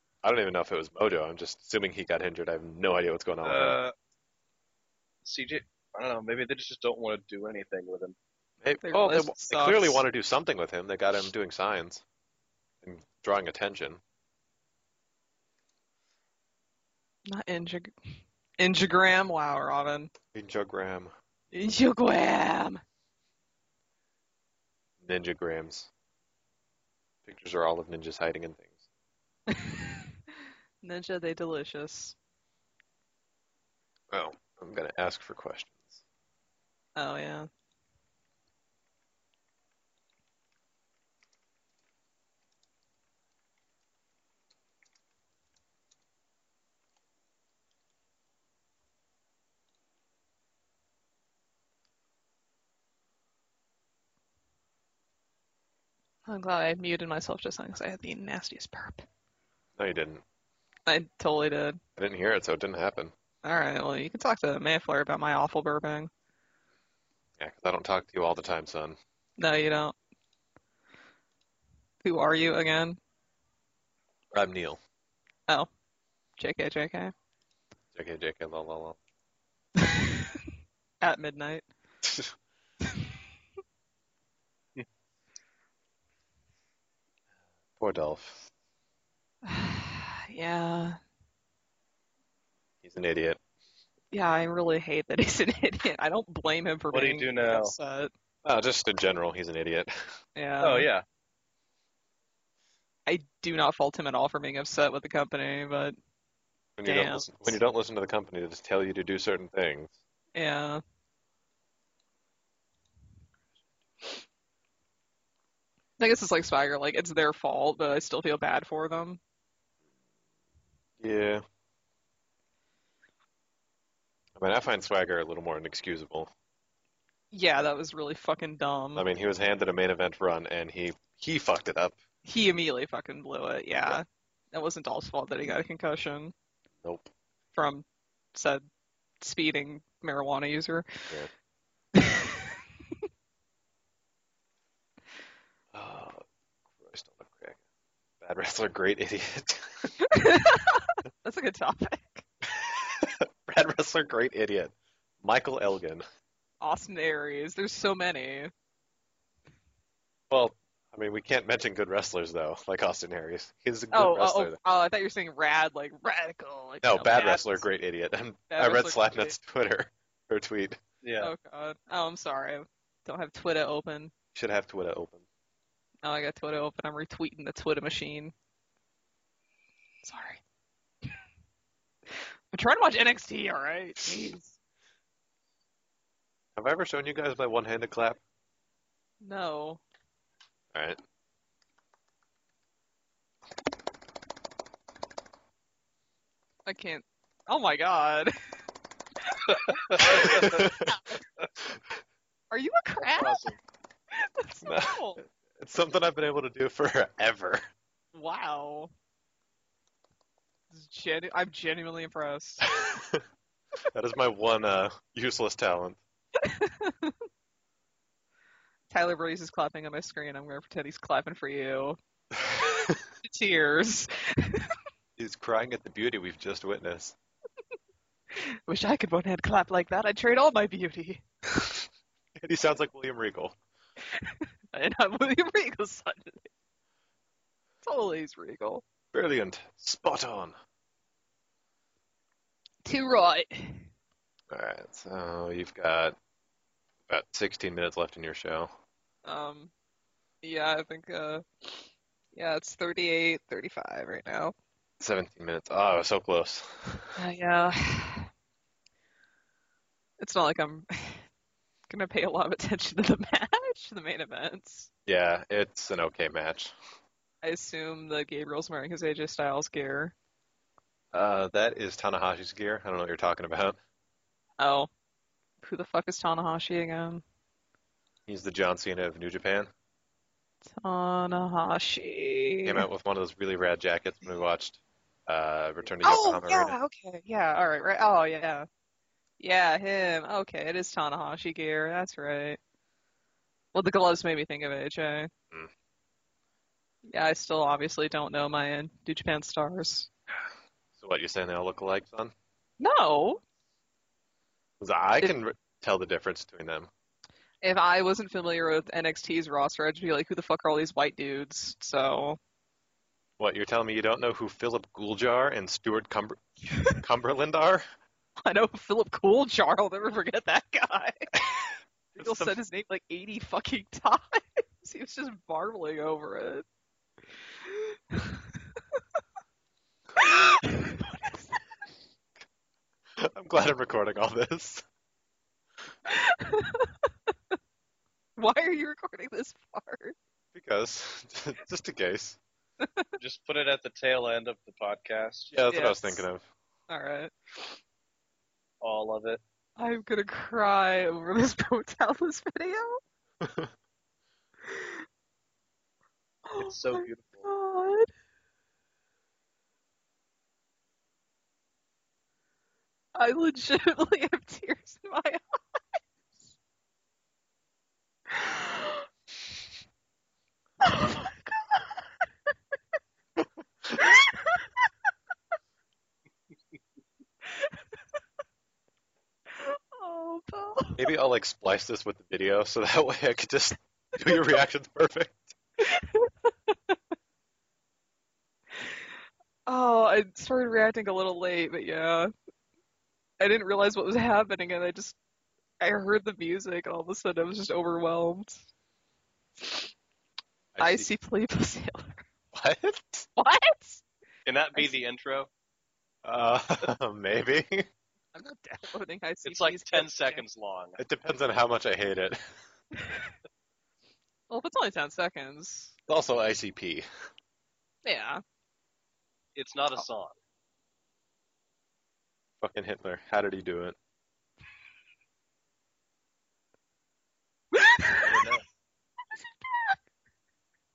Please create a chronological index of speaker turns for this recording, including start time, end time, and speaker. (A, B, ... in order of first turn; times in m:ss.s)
0:00.2-0:03.8 A
0:03.4-0:03.9 B
0:05.2-0:08.2 B
0:08.6-0:12.0 A
0:08.8-0:10.0 C
0:12.8-0:14.0 A
0:17.3-0:17.9 C
0:18.6-0:20.1 C
0:20.3-0:21.1 A
0:21.5-0:22.8 C
0:25.0-0:25.9 A
0:27.2-0:28.7 A
0:29.5-0:30.1 C
0:30.8-0:32.2 C
0:34.1-0:36.0 A
0:37.0-0:37.5 C
0:56.2-0:59.0 C
0:59.8-1:00.2 A
1:00.9-1:01.8 C
1:02.0-1:03.1 A
1:03.4-1:06.1 C
1:07.4-1:09.0 A
1:09.4-1:09.9 C
1:12.0-1:13.0 C
1:14.3-1:14.8 A
1:16.4-1:17.1 C
1:17.9-1:19.0 A
1:19.8-1:20.3 C
1:21.0-1:21.6 C
1:22.0-1:22.3 A
1:27.8-1:28.5 A
1:29.4-1:31.0 C
1:32.8-1:33.4 A
1:34.1-1:38.1 C
1:36.9-1:37.7 B
1:38.4-1:40.1 A
1:40.4-1:40.9 C
1:40.6-1:41.0 B
1:43.1-1:45.9 C
1:46.8-1:49.9 A
1:46.8-1:47.6 C
1:50.3-1:50.8 C
1:56.0-1:59.2 C
2:01.0-2:01.4 A
2:04.4-2:06.3 A
2:07.3-2:09.0 C
2:09.0-2:12.0 A
2:12.2-2:16.3 C
2:16.8-2:17.1 A
2:17.5-2:18.6 C
2:19.2-2:20.9 C
2:21.9-2:22.4 C
2:25.7-2:26.2 A
2:26.8-2:27.6 A
2:28.2-2:29.9 A
2:30.1-2:32.2 C
2:32.5-2:36.0 A
2:36.6-2:38.5 C
2:40.3-2:44.6 A
2:43.9-2:47.6 C
2:46.8-2:50.8 A
2:48.5-2:49.3 C
2:51.0-2:51.3 B
2:51.2-2:54.1 C
2:54.3-2:55.2 A
2:56.0-2:58.3 C
3:00.0-3:00.4 C
3:02.5-3:04.6 C
3:06.6-3:08.2 A
3:09.2-3:09.8 C
3:10.7-3:11.0 A
3:16.7-3:18.3 C
3:19.3-3:21.0 C
3:19.7-3:20.4 B
3:20.0-3:21.0 A
3:22.5-3:23.5 C
3:23.1-3:23.6 B
3:24.1-3:25.2 C
3:24.6-3:27.6 A
3:28.1-3:28.9 C
3:30.7-3:32.8 C
3:32.8-3:33.2 A
3:33.9-3:36.0 A
3:36.4-3:37.1 C
3:38.9-3:42.0 C
3:42.4-3:43.0 A
3:42.6-3:44.7 C
3:45.2-3:47.2 A
3:48.3-3:51.2 C
3:51.6-3:51.8 A
3:52.4-3:53.6 A
3:54.2-3:56.5 C
3:57.8-3:58.8 C
3:59.1-4:00.5 A
4:02.8-4:03.9 C
4:04.5-4:06.2 A
4:07.1-4:08.7 A
4:09.2-4:09.7 C
4:10.4-4:14.5 C
4:15.0-4:17.1 A
4:17.2-4:18.3 C
4:20.2-4:21.2 C
4:21.9-4:24.9 C
4:25.0-4:26.7 A
4:27.4-4:30.1 C
4:31.1-4:33.8 A
4:34.6-4:34.9 C
4:35.6-4:37.2 C
4:38.3-4:39.7 A
4:40.8-4:42.8 C
4:42.6-4:46.8 A
4:46.0-4:48.6 C
4:49.4-4:52.6 C
4:53.7-4:55.3 C
4:57.1-5:00.1 C
5:01.0-5:02.3 A
5:02.8-5:03.4 C
5:04.8-5:06.9 A
5:07.6-5:12.4 C
5:13.4-5:17.8 A
5:18.4-5:21.3 C
5:22.1-5:22.6 A
5:22.2-5:26.6 C
5:27.6-5:28.6 C
5:30.2-5:31.6 C
5:33.2-5:34.8 A
5:36.1-5:37.1 C
5:38.4-5:40.1 C
5:40.5-5:42.4 A
5:42.8-5:43.1 C
5:43.2-5:45.5 B
5:45.5-5:46.4 A
5:45.7-5:46.2 C
5:46.9-5:47.8 C
5:48.8-5:49.4 B
5:49.8-5:53.0 C
5:53.4-5:53.7 A
5:54.6-5:55.0 C
5:56.5-5:58.1 C
5:56.6-5:57.5 B
6:03.1-6:05.4 C
6:08.3-6:09.1 C
6:10.8-6:12.1 C
6:14.0-6:14.7 C
6:17.4-6:17.8 C
6:19.5-6:21.1 C
6:21.0-6:25.6 A
6:25.8-6:26.9 C
6:29.6-6:32.3 C
6:33.4-6:35.2 C
6:35.8-6:38.6 C
6:39.6-6:39.9 C
6:40.7-6:41.1 A
6:40.8-6:42.2 C
6:42.5-6:43.3 A
6:43.4-6:44.0 C
6:44.4-6:45.5 B
6:46.2-6:47.8 A
6:48.3-6:50.4 C
6:49.4-6:51.0 B
6:51.0-6:52.4 A
6:53.0-6:53.3 C
6:54.5-6:55.9 C
6:56.1-6:57.0 A
6:58.0-6:58.4 C
6:59.6-7:00.3 B
7:02.6-7:04.0 A
7:07.7-7:08.2 C
7:08.2-7:08.6 B
7:09.3-7:10.0 C